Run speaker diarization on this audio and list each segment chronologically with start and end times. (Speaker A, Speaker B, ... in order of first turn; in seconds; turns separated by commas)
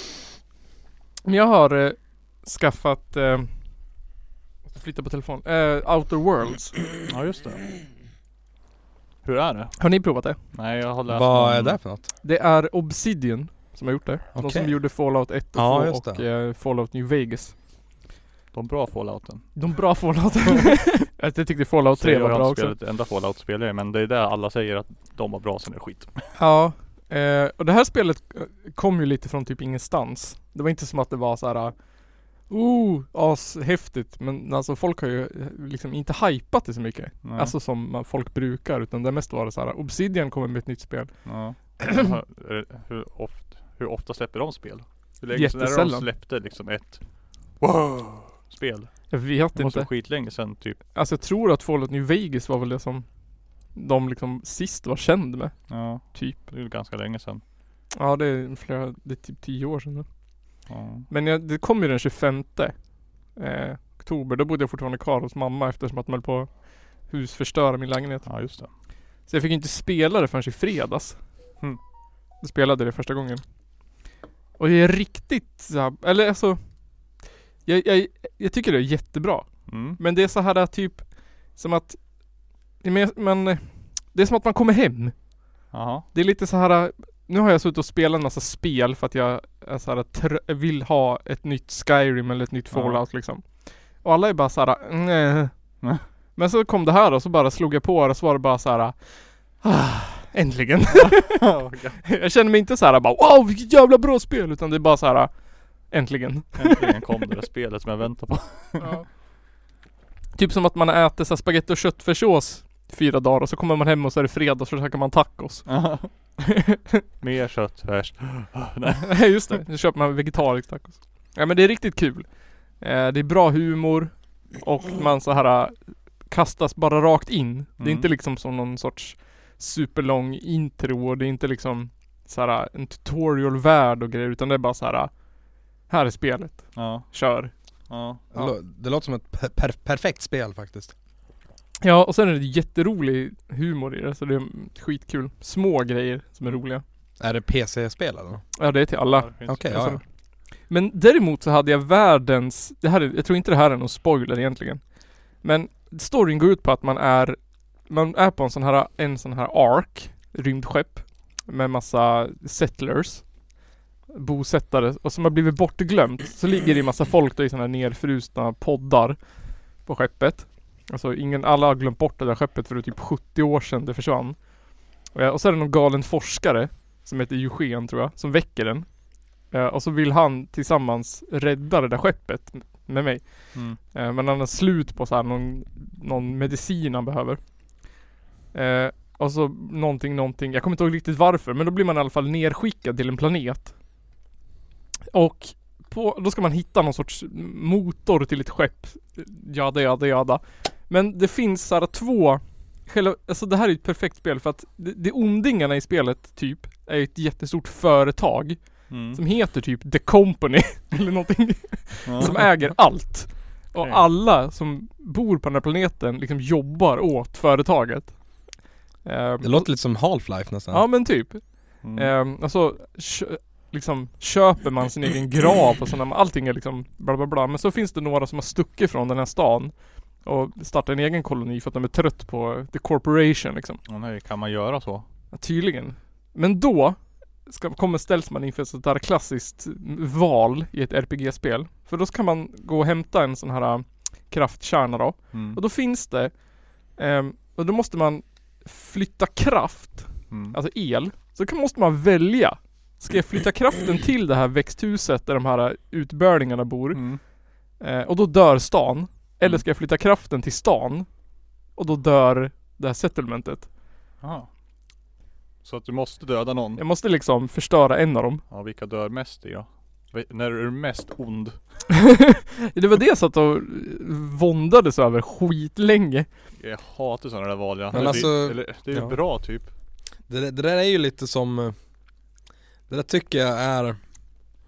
Speaker A: 1.2-4.1, Speaker A: 4.7-6.8, Speaker B: 7.1-7.8, Speaker B: 9.2-11.8, Speaker A: 9.8-10.4, Speaker C: 11.1-12.1, Speaker A: 12.2-17.6, Speaker C: 14.3-16.2, Speaker B: 18.5-20.2, Speaker A: 19.5-22.8, Speaker B: 22.0-26.3, Speaker A: 26.3-41.7, Speaker B: 37.2-37.5, Speaker B: 41.2-50.8, Speaker A: 45.3-46.1, Speaker A: 49.1-56.4, Speaker B: 55.7-57.4, Speaker A: 57.9-71.7, Speaker B: 60.7-61.1, Speaker B: 68.2-68.7, Speaker A: 72.4-74.0, Speaker A: 74.6-106.9, Speaker B: 79.7-80.0, Speaker B: 85.7-86.0, Speaker B: 92.7-93.0, Speaker B: 101.0-102.0, Speaker B: 106.6-108.9, Speaker A: 108.8-109.1, Speaker A: 110.3-116.4, Speaker B: 115.7-116.4, Speaker B: 117.2-119.6, Speaker A: 119.1-137.5, Speaker B: 127.8-128.1, Speaker B: 136.7-138.2, Speaker C: 138.3-140.9, Speaker A: 141.8-146.8, Speaker C: 147.2-148.6, Speaker A: 148.6-163.6, Speaker B: 149.1-149.9, Speaker C: 149.5-150.0, Speaker A: 164.1-193.8, Speaker A: 195.1-233.8, Speaker B: 208.9-209.2, Speaker B: 212.0-212.6, Speaker B: 213.8-214.1, Speaker C: 219.4-220.8, Speaker B: 221.8-222.1, Speaker B: 233.8-235.0, Speaker A: 235.3-263.7, Speaker B: 245.3-245.6, Speaker B: 250.3-250.6, Speaker B: 256.9-257.2, Speaker B: 264.2-264.5, Speaker B: 265.6-266.8, Speaker A: 266.8-268.4, Speaker B: 268.5-271.8, Speaker A: 272.7-276.3, Speaker B: 276.6-279.7, Speaker C: 277.9-279.7, Speaker A: 277.9-278.3, Speaker C: 280.2-284.5